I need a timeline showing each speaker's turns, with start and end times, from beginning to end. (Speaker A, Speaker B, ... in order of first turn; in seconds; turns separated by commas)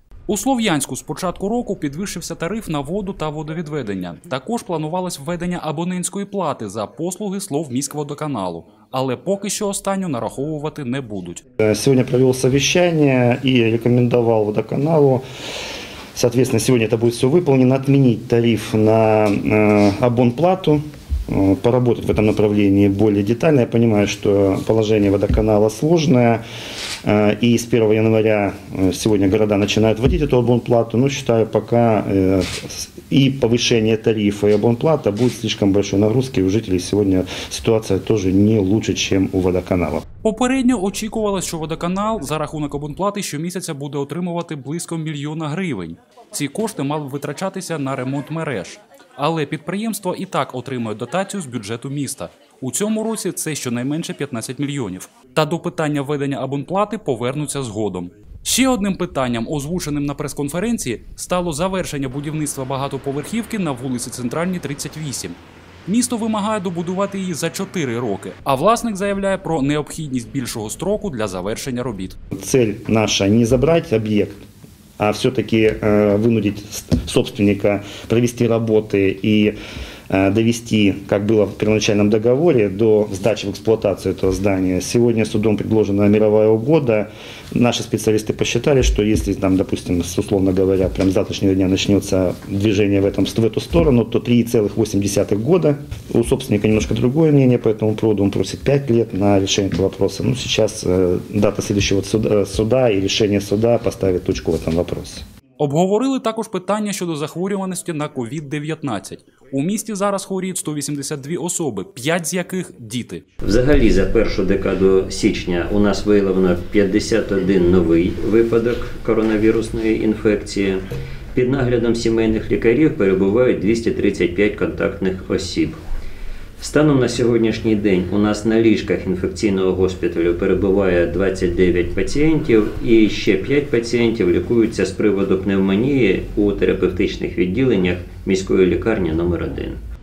Speaker A: 0.3-11.4, Speaker B: 11.6-15.2, Speaker B: 16.1-26.4, Speaker B: 27.0-40.0, Speaker A: 40.2-72.2, Speaker B: 72.3-74.4, Speaker B: 75.0-79.5, Speaker B: 80.1-105.2, Speaker A: 105.6-113.2, Speaker C: 113.4-120.8, Speaker C: 121.3-125.8, Speaker C: 126.6-139.8